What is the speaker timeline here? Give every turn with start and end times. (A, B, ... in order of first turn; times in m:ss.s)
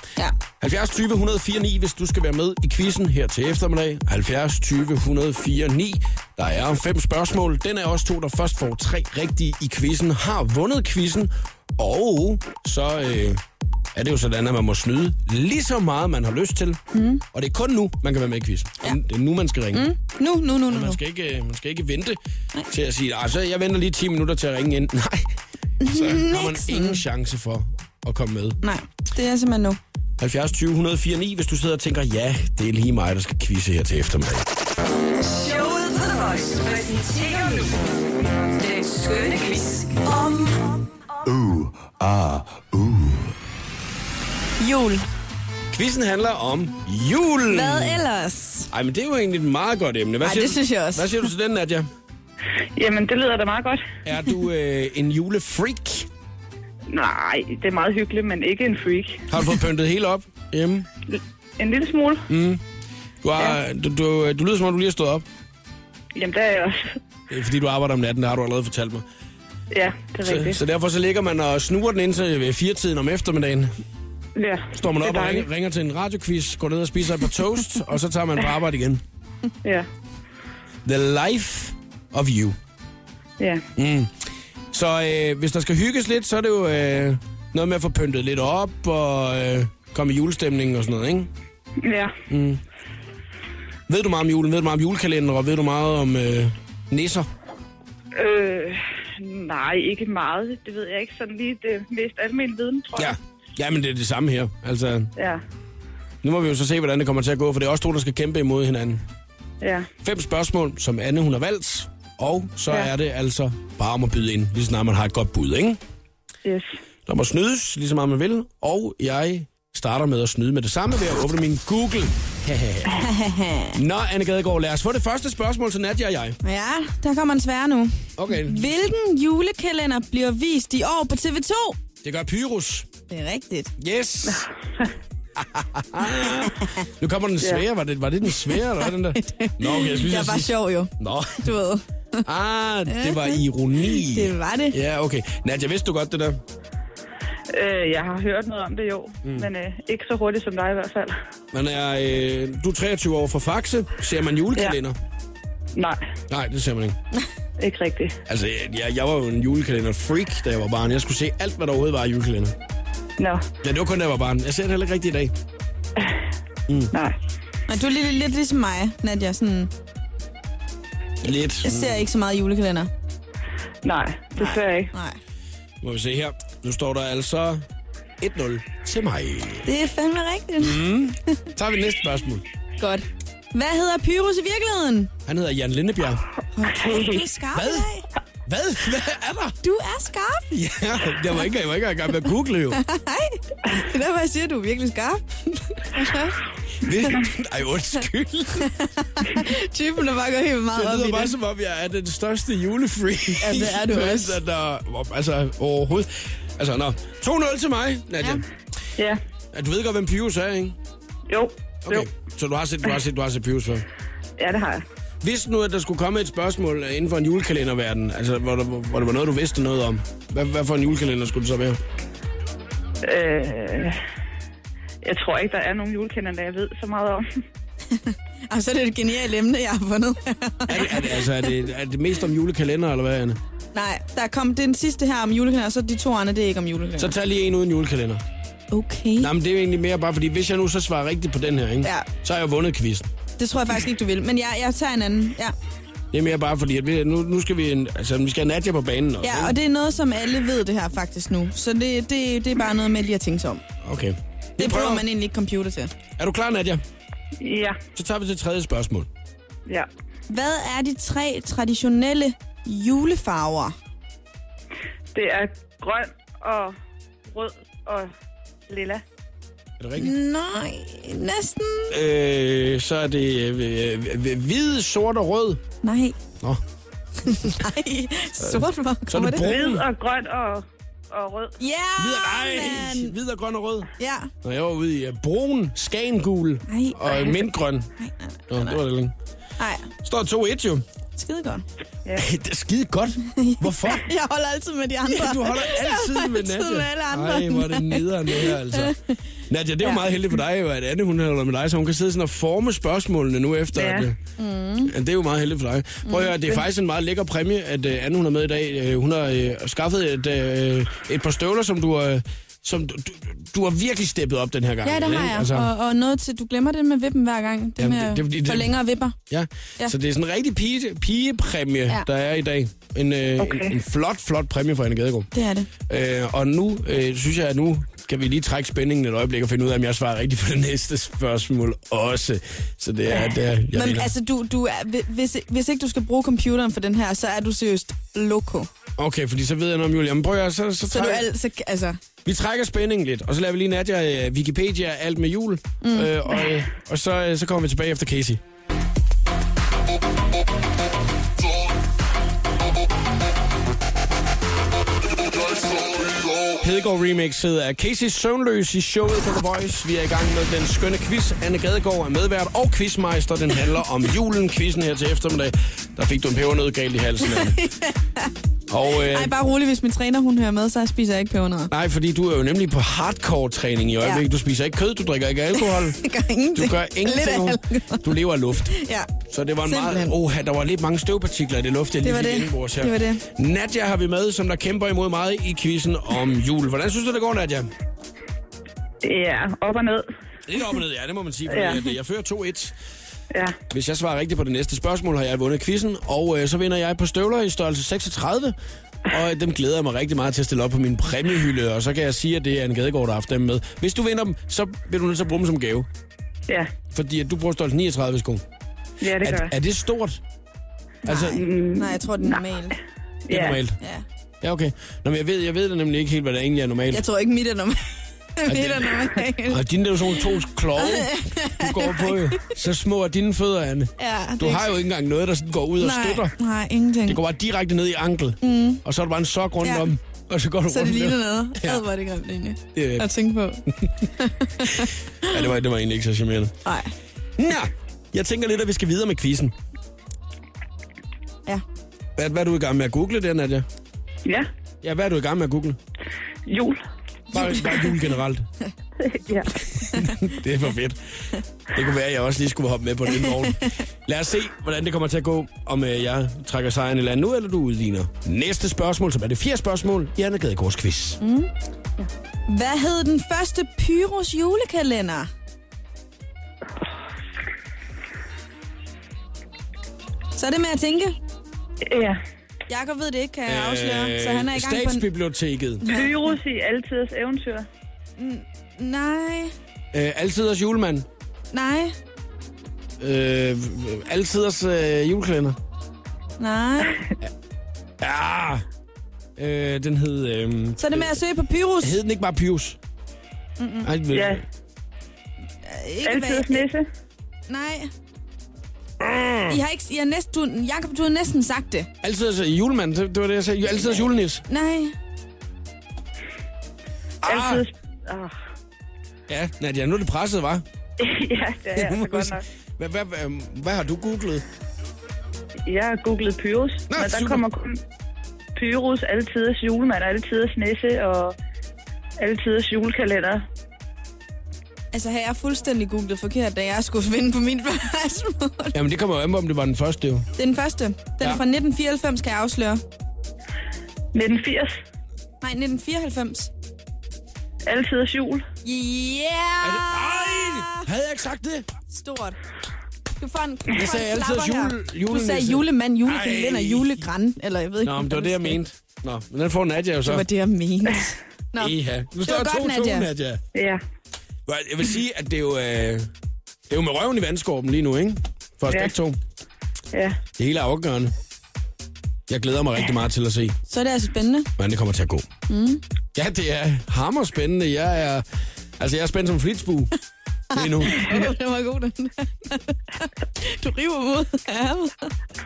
0:00.6-0:13.4 A
0:13.9-0:16.8 A
0:16.9-0:17.2 B
0:17.3-0:19.9 A
0:19.7-0:21.0 B
0:20.7-0:22.2 A
0:22.7-0:25.3 A
0:25.8-0:27.0 B
0:25.8-0:28.6 A
0:28.6-0:29.8 B
0:30.2-0:34.5 A
0:35.2-0:37.7 C
0:38.5-0:40.5 C
0:44.6-0:45.0 B
0:45.7-0:48.0 A
0:47.5-0:48.7 B
0:48.7-0:51.9 A
0:50.2-0:51.3 B
0:52.7-0:53.8 D
0:54.0-0:56.1 A
0:56.9-0:59.3 D
0:59.3-1:00.9 A
1:01.1-1:02.3 D
1:02.3-1:02.6 A
1:03.2-1:05.2 A
1:06.1-1:07.0 D
1:07.3-1:09.0 A
1:09.7-1:10.6 D
1:10.2-1:13.7 A
1:14.4-1:15.5 D
1:14.7-1:19.0 A
1:20.8-1:22.6 A
1:23.4-1:23.6 D
1:23.8-1:24.1 A
1:24.7-1:31.3 A
1:31.8-1:32.2 D
1:32.3-1:32.6 A
1:33.9-1:37.3 A
1:38.1-1:43.2 D
1:43.0-1:45.1 A
1:45.2-1:45.4 D
1:46.2-1:49.0 A
1:49.6-1:49.9 D
1:50.0-1:55.8 A
1:56.4-1:56.7 D
1:57.1-2:03.0 A
2:02.9-2:03.8 B
2:03.7-2:06.4 A
2:06.4-2:11.8 B
2:08.2-2:08.6 A
2:12.0-2:12.9 A
2:13.1-2:13.7 B
2:13.8-2:14.5 A
2:14.3-2:14.9 D
2:15.4-2:21.5 A
2:19.1-2:22.2 B
2:22.2-2:26.4 A
2:22.9-2:24.8 B
2:27.5-2:31.2 D
2:29.2-2:29.5 A
2:31.5-2:35.0 A
2:35.7-2:36.0 D
2:36.3-2:37.0 A
2:37.6-2:38.2 D
2:38.3-2:42.6 A
2:43.2-2:43.4 D
2:43.6-2:45.3 A
2:46.0-2:46.2 D
2:46.7-2:46.9 A
2:46.9-2:47.2 D
2:47.7-2:49.7 B
2:51.2-2:52.0 A
2:51.6-2:52.9 B
2:53.8-2:54.9 D
2:54.4-2:55.2 B
2:55.8-2:57.6 A
2:58.2-2:59.7 A
2:59.6-3:00.8 B
3:00.6-3:02.4 A
3:02.8-3:05.1 B
3:05.2-3:06.2 A
3:06.5-3:08.0 B
3:06.8-3:07.2 D
3:07.5-3:07.9 A
3:08.4-3:09.6 A
3:09.6-3:10.6 B
3:10.5-3:12.8 A
3:12.7-3:16.9 B
3:16.8-3:18.7 A
3:18.6-3:21.3 B
3:20.7-3:28.4 A
3:23.4-3:24.4 B
3:29.5-3:30.8 A
3:31.3-3:32.1 D
3:31.8-3:33.8 A
3:34.4-3:34.8 D
3:35.2-3:41.8 A
3:43.0-3:44.0 D
3:45.0-3:47.2 D
3:47.9-3:51.4 B
3:50.7-3:53.4 A
3:53.7-3:57.1 B
3:57.0-3:58.2 A
3:58.7-3:59.3 B
3:59.2-4:03.1 A
4:03.4-4:05.5 B
4:06.1-4:09.6 A
4:09.2-4:13.6 B
4:13.8-4:15.0 A
4:14.6-4:15.9 B
4:16.2-4:16.8 A
4:17.4-4:17.8 D
4:17.9-4:19.1 A
4:20.3-4:23.7 B
4:25.1-4:26.7 D
4:27.3-4:28.1 D
4:28.7-4:29.0 D
4:29.8-4:30.1 A
4:30.0-4:31.9 B
4:31.9-4:35.6 A
4:35.8-4:36.2 B
4:37.2-4:39.5 B
4:38.4-4:39.9 A
4:39.4-4:41.5 D
4:41.6-4:43.1 B
4:42.0-4:43.9 A
4:44.0-4:44.3 B
4:44.4-4:47.9 A
4:46.7-4:47.5 B
4:48.0-4:48.8 B
4:48.5-4:49.1 A
4:49.6-4:49.9 B
4:50.0-4:50.8 A
4:51.2-4:51.6 B
4:52.1-4:54.0 A
4:53.2-4:59.1 B
4:55.0-4:59.0 A
4:59.5-5:04.2 A
5:03.7-5:04.1 D
5:04.4-5:04.9 B
5:04.8-5:15.7 A
5:06.0-5:06.6 B
5:14.8-5:19.1 B
5:17.8-5:18.8 A
5:19.3-5:25.3 A
5:23.4-5:23.7 D
5:25.3-5:25.7 B
5:25.9-5:34.1 A
5:33.7-5:38.7 B
5:39.0-5:41.3 A
5:40.9-5:42.0 B
5:42.2-5:48.4 A
5:45.8-5:46.1 B
5:56.5-6:07.6 A
6:07.2-6:08.3 B
6:08.7-6:09.3 A
6:08.9-6:11.7 B
6:11.7-6:16.0 A
6:15.6-6:18.1 B
6:16.5-6:18.7 A
6:18.6-6:19.1 B
6:19.3-6:27.7 A
6:19.6-6:20.2 B
6:22.0-6:23.2 B
6:29.0-6:30.1 D
6:30.4-6:32.7 A
6:31.5-6:31.8 D
6:33.3-6:33.6 D
6:33.7-6:45.9 A
6:46.9-6:48.4 A
6:49.0-6:49.5 D
6:49.2-6:50.2 A
6:51.0-6:51.4 A
6:51.1-6:52.8 B
6:51.3-6:52.4 D
6:53.3-6:53.6 D
6:53.3-6:53.8 A
6:53.8-6:54.0 B
6:54.4-6:57.0 A
6:56.9-6:59.6 B
6:58.4-7:06.4 A
7:00.2-7:02.5 B
7:04.0-7:04.7 B
7:05.8-7:07.2 B
7:07.1-7:11.8 A
7:08.4-7:08.8 B
7:09.6-7:09.9 B
7:10.7-7:15.4 B
7:12.7-7:13.1 A
7:14.6-7:16.5 A
7:16.6-7:16.9 B
7:17.4-7:19.5 A
7:22.2-7:23.6 A
7:24.8-7:25.8 A
7:26.4-7:26.8 D
7:27.3-7:28.5 A
7:27.3-7:27.8 B
7:29.0-7:29.7 D
7:29.3-7:30.2 B
7:29.9-7:31.0 A
7:31.7-7:41.2 A
7:41.2-7:41.5 B
7:42.5-7:45.3 B
7:50.3-7:51.2 B
7:51.8-7:52.2 D
7:52.7-7:55.1 B
7:53.4-7:55.9 A
7:55.8-7:56.4 B
7:55.9-7:57.6 D
7:58.2-7:59.5 B
7:59.9-8:01.1 A
8:01.5-8:01.9 B
8:03.0-8:05.6 A
8:06.4-8:07.1 B
8:08.0-8:08.6 A
8:09.4-8:11.2 A
8:10.8-8:12.0 B
8:11.8-8:12.8 A
8:13.6-8:13.9 B
8:13.8-8:14.4 A
8:14.1-8:14.4 D
8:15.6-8:16.7 B
8:16.0-8:16.8 D
8:17.5-8:17.9 B
8:19.0-8:19.6 A
8:19.5-8:21.9 B
8:22.0-8:24.4 A
8:24.5-8:25.0 B
8:27.2-8:27.6 A
8:27.2-8:28.3 D
8:29.3-8:30.6 A
8:31.0-8:32.4 D
8:31.7-8:34.4 A
8:35.7-8:37.8 D
8:36.9-8:37.4 A
8:38.5-8:41.3 D
8:42.2-8:43.4 D
8:44.9-8:48.8 B
8:48.7-8:50.3 A
8:50.4-8:52.8 B
8:54.1-8:54.8 D
8:55.4-8:56.5 B
8:57.6-8:58.4 D
8:58.6-9:00.9 B
8:59.6-9:01.7 A
9:01.9-9:02.4 B
9:03.2-9:08.6 B
9:03.7-9:07.0 A
9:07.8-9:10.3 A
9:10.0-9:13.1 B
9:11.6-9:13.4 A
9:13.5-9:13.8 D
9:14.4-9:16.1 A
9:16.7-9:19.2 A
9:18.7-9:18.9 D
9:19.9-9:20.2 D
9:20.3-9:21.1 A
9:22.3-9:23.6 A
9:23.7-9:24.5 B
9:24.6-9:25.3 A
9:25.5-9:25.8 B
9:26.1-9:28.2 A
9:28.8-9:29.9 A
9:30.5-9:31.2 A
9:30.5-9:35.1 B